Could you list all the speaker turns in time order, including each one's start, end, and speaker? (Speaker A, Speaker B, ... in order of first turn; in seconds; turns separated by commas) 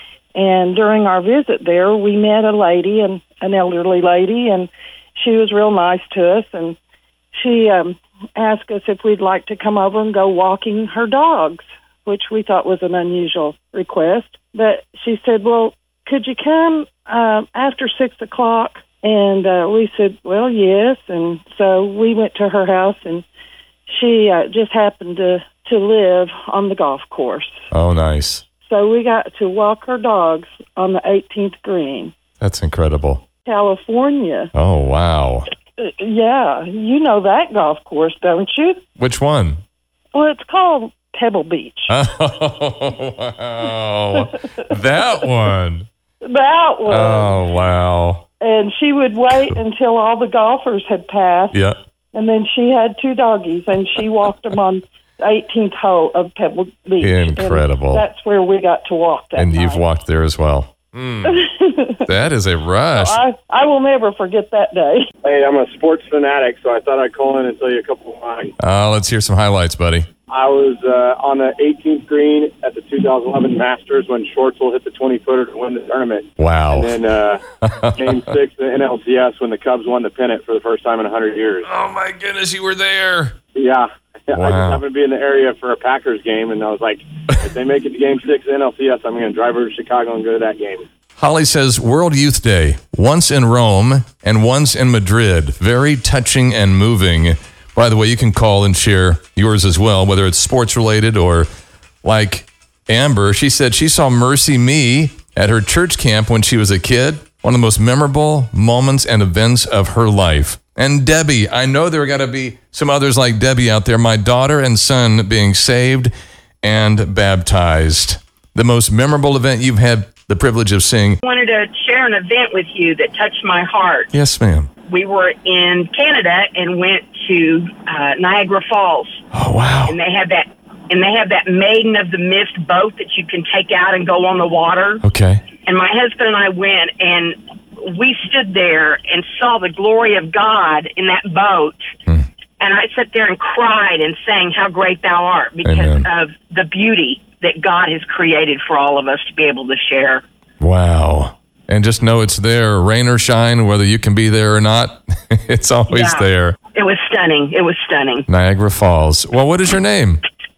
Speaker A: 0.3-6.8, Speaker A: 7.3-23.2, Speaker A: 23.9-27.6, Speaker B: 27.7-28.4, Speaker A: 28.6-32.1, Speaker B: 32.4-33.2, Speaker A: 33.5-34.5, Speaker B: 34.5-35.5, Speaker A: 35.8-38.8, Speaker B: 39.0-39.6, Speaker A: 40.1-41.9, Speaker B: 41.9-45.9, Speaker A: 46.2-47.4, Speaker B: 46.9-48.2, Speaker A: 48.4-51.6, Speaker A: 52.1-59.8, Speaker B: 57.0-58.1, Speaker B: 59.4-61.4, Speaker A: 61.3-62.0, Speaker B: 62.0-63.2, Speaker A: 63.0-65.1, Speaker C: 65.2-68.5, Speaker B: 68.6-70.1, Speaker C: 70.3-77.4, Speaker B: 76.4-77.0, Speaker B: 77.6-78.0, Speaker C: 78.0-81.6, Speaker B: 81.7-83.3, Speaker C: 83.5-90.8, Speaker B: 84.3-84.8, Speaker B: 91.2-101.5, Speaker B: 102.0-116.1, Speaker B: 116.6-121.2, Speaker D: 121.2-124.1, Speaker B: 124.1-124.7, Speaker D: 124.9-129.2, Speaker B: 129.3-130.0, Speaker D: 129.9-135.0, Speaker B: 135.0-135.4, Speaker D: 135.6-141.8, Speaker D: 142.6-150.2, Speaker B: 145.6-146.1, Speaker B: 150.6-156.6, Speaker D: 155.9-158.3, Speaker B: 158.3-160.2